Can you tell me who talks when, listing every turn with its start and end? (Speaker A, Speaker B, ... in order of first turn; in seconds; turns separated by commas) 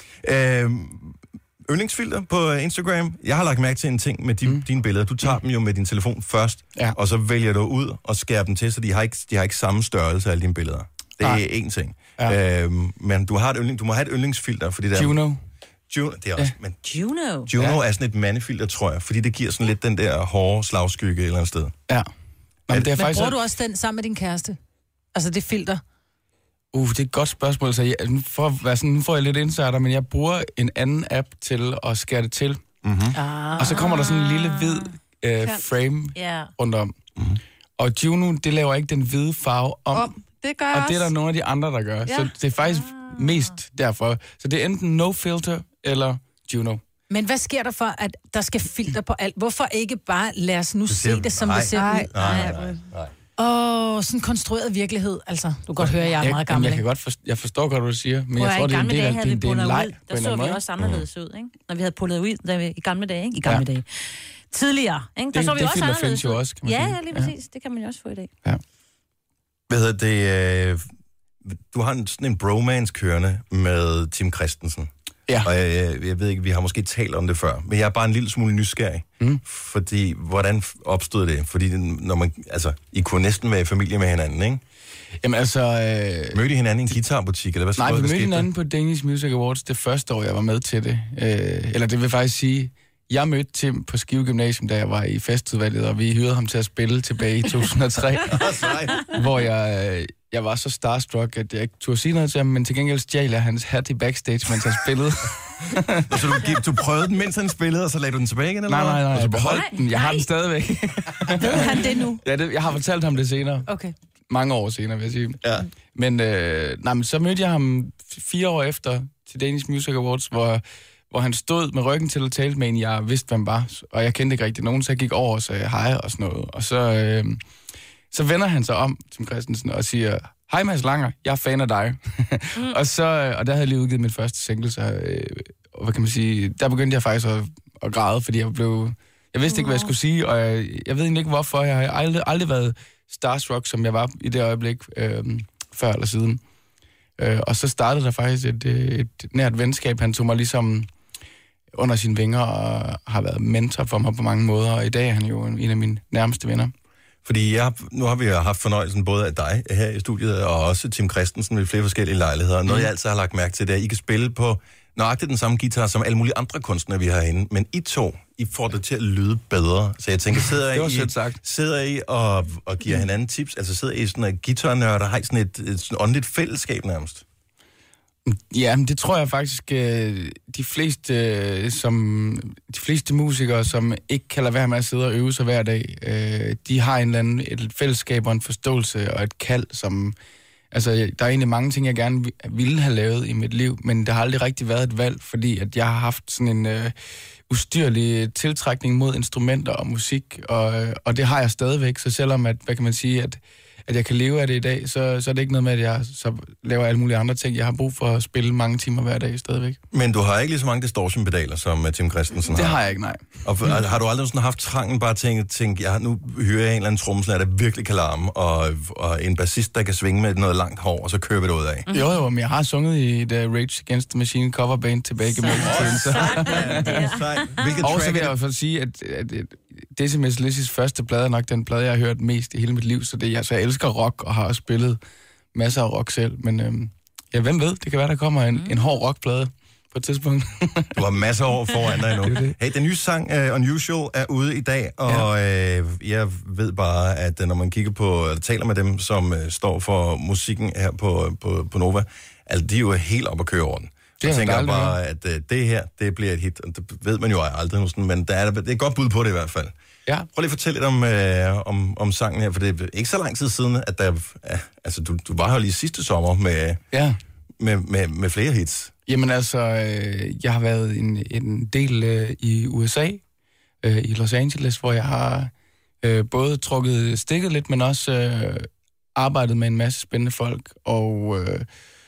Speaker A: 0.2-15.2, Speaker B: 14.9-15.4, Speaker A: 15.9-16.8, Speaker C: 16.9-17.5, Speaker A: 17.5-21.8, Speaker B: 22.7-23.4, Speaker D: 23.0-24.6, Speaker D: 25.1-25.8, Speaker B: 26.7-32.6, Speaker A: 32.9-33.1, Speaker D: 33.1-33.9, Speaker B: 33.6-36.9, Speaker C: 33.8-34.9, Speaker C: 36.2-36.5, Speaker B: 37.8-40.1, Speaker E: 39.9-41.1, Speaker B: 40.7-46.8, Speaker C: 42.6-43.4, Speaker D: 47.1-52.4, Speaker A: 50.9-53.1, Speaker E: 51.8-52.8, Speaker C: 52.2-52.5, Speaker D: 53.4-56.8, Speaker B: 56.2-60.6, Speaker C: 58.4-68.3, Speaker A: 60.8-61.1, Speaker B: 65.3-67.3, Speaker A: 69.7-70.8, Speaker A: 71.5-74.9, Speaker A: 75.4-84.6, Speaker B: 85.2-86.4, Speaker A: 86.3-88.5, Speaker B: 87.8-98.4, Speaker A: 98.2-99.1, Speaker B: 99.1-106.2, Speaker A: 106.1-109.6, Speaker B: 108.7-113.7, Speaker C: 109.5-110.3, Speaker D: 111.4-112.2, Speaker C: 111.4-112.1, Speaker D: 113.7-113.9, Speaker B: 114.3-115.4, Speaker B: 115.9-127.4, Speaker B: 128.1-146.4, Speaker B: 147.2-150.9, Speaker B: 151.8-156.7, Speaker A: 157.2-177.2, Speaker B: 170.4-171.4, Speaker B: 178.3-190.2, Speaker B: 190.7-196.9, Speaker B: 197.5-209.8, Speaker A: 209.9-212.8, Speaker B: 212.5-213.3, Speaker A: 213.4-221.9, Speaker B: 221.9-226.9, Speaker C: 225.3-227.8, Speaker A: 225.4-228.3, Speaker B: 227.8-235.0, Speaker B: 235.6-241.0, Speaker A: 240.9-259.7, Speaker B: 242.1-242.6, Speaker B: 254.2-255.0, Speaker A: 260.3-266.8, Speaker A: 267.6-268.9, Speaker B: 269.1-273.2, Speaker B: 273.8-275.5, Speaker B: 276.0-281.7